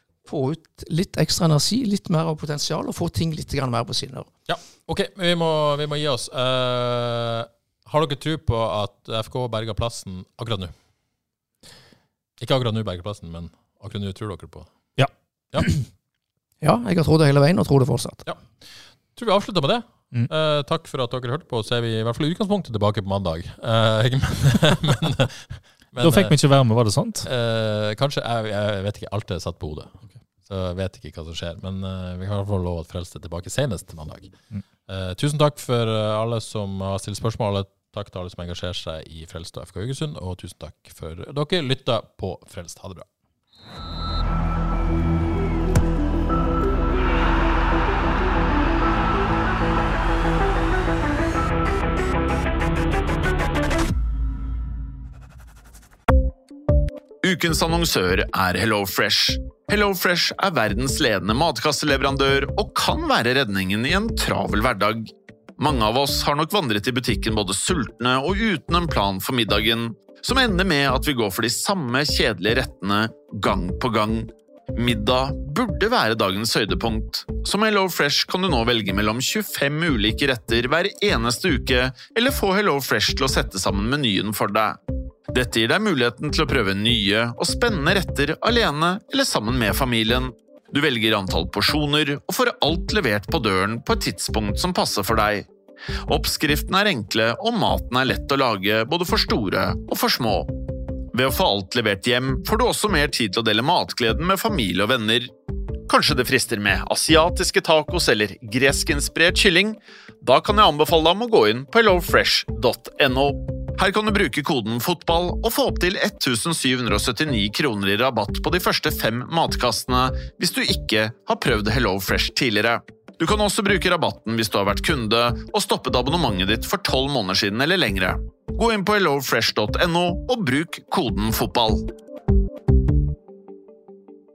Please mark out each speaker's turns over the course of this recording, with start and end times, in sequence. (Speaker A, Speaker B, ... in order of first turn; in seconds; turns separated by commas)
Speaker A: 0.2-4.3, Speaker B: 4.5-10.7, Speaker B: 12.4-14.7, Speaker C: 15.0-15.9, Speaker A: 16.6-18.2, Speaker B: 18.2-26.4, Speaker C: 26.0-27.3, Speaker B: 27.2-34.3, Speaker B: 34.9-43.0, Speaker D: 57.2-84.8, Speaker D: 85.3-95.5, Speaker D: 96.0-100.5, Speaker D: 101.1-105.3, Speaker D: 105.9-131.8